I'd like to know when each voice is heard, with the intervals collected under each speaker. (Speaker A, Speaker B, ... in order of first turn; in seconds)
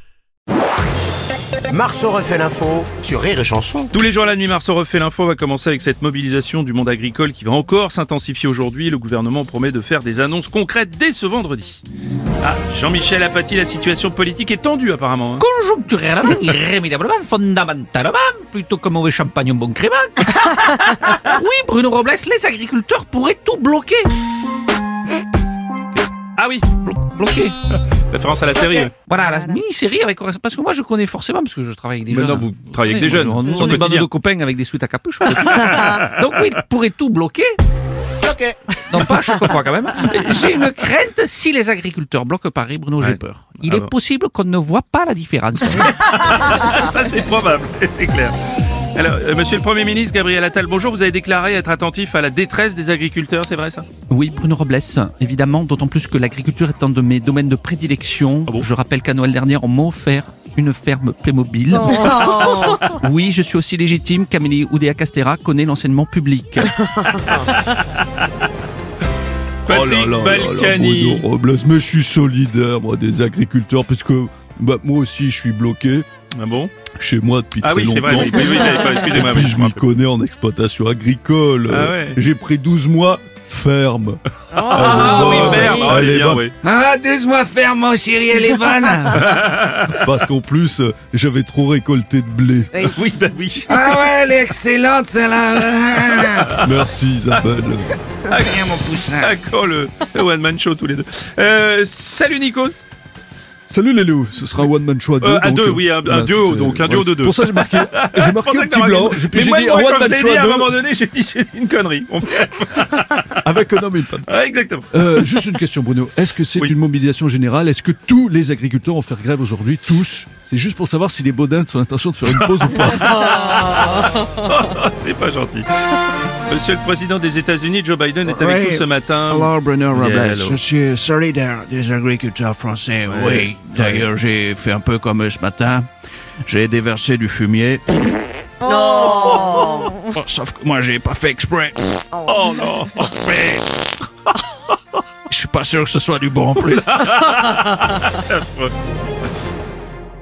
Speaker A: 1.7-3.9, 38.2-38.6
Speaker B: 3.9-11.8, 12.4-15.4, 26.4-26.8, 27.7-28.9, 32.1-34.1, 35.3-36.2, 43.0-43.9, 45.7-48.4, 48.9-53.9, 61.9-62.9, 66.9-68.2, 69.7-71.2, 76.4-76.7, 77.6-79.9, 81.7-82.2, 84.5-86.5, 89.1-90.0, 92.9-93.9, 96.2-96.7, 98.3-102.8, 105.2-113.5, 114.2-115.4, 122.4-130.6, 133.1-134.1, 138.6-139.9, 142.2-143.5, 146.6-148.7
Speaker C: 15.4-24.1, 26.8-27.5, 29.1-37.6, 38.9-45.9, 54.1-66.8, 84.8-85.7, 86.6-89.3, 93.7-96.4, 98.4-99.3, 128.2-128.6, 130.0-130.7, 146.1-147.0
Speaker D: 69.7-76.0, 76.9-86.5, 89.9-92.9, 96.5-97.9, 103.7-110.8, 113.4-114.3, 114.9-123.2
Speaker E: 84.7-85.7, 86.7-88.0, 93.9-96.4, 128.5-128.8, 129.4-135.9, 136.4-137.9, 138.7-141.8, 145.3-146.8